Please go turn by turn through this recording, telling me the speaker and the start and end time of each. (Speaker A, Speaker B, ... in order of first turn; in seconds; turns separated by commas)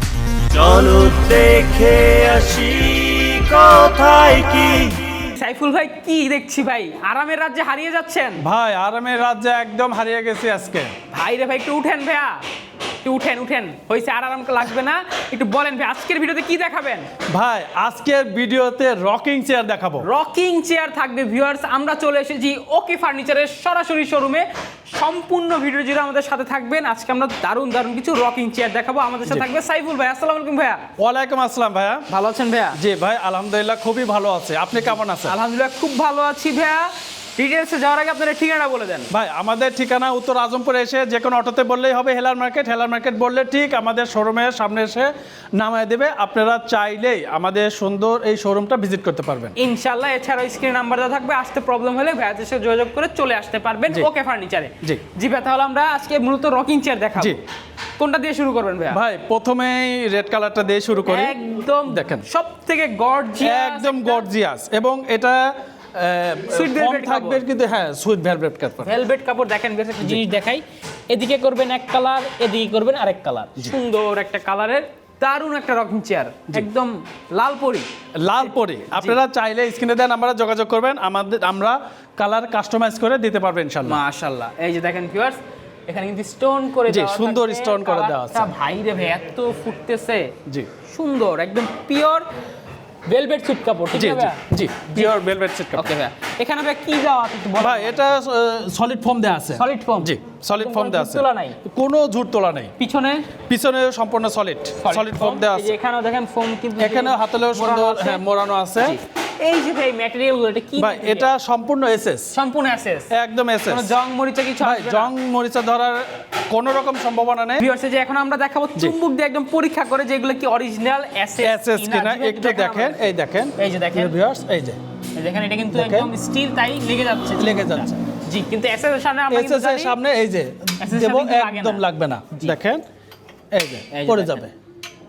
Speaker A: 0.6-5.1, Speaker B: 5.2-8.4, Speaker C: 8.4-10.9, Speaker B: 11.1-12.4, Speaker B: 13.0-17.1, Speaker C: 17.3-20.1, Speaker B: 20.0-30.9, Speaker C: 31.0-32.1, Speaker B: 32.1-32.8, Speaker C: 32.8-35.4, Speaker B: 34.9-39.1, Speaker C: 39.1-49.6, Speaker B: 49.6-57.4, Speaker B: 58.0-59.0, Speaker C: 58.9-61.4, Speaker B: 61.1-64.3, Speaker C: 61.9-62.3, Speaker C: 63.4-69.0, Speaker B: 66.5-67.4, Speaker B: 68.8-79.2, Speaker C: 78.2-84.0, Speaker B: 83.8-90.4, Speaker C: 86.9-88.5, Speaker B: 90.9-92.3, Speaker B: 93.1-95.2, Speaker C: 93.9-96.0, Speaker B: 95.7-98.2, Speaker C: 97.6-102.7, Speaker B: 99.5-101.6, Speaker B: 102.8-103.3, Speaker C: 103.5-105.8, Speaker B: 104.8-108.2, Speaker C: 106.8-109.0, Speaker B: 108.8-111.3, Speaker C: 110.8-112.3, Speaker B: 112.3-113.1, Speaker C: 113.1-113.9, Speaker B: 113.7-115.1, Speaker C: 114.6-117.7, Speaker B: 117.6-123.1, Speaker C: 121.4-124.8, Speaker B: 123.6-124.2, Speaker B: 125.2-130.0, Speaker C: 125.7-126.1, Speaker C: 127.4-128.0, Speaker C: 129.3-132.8, Speaker B: 130.8-132.6, Speaker C: 133.5-134.5, Speaker B: 133.9-134.4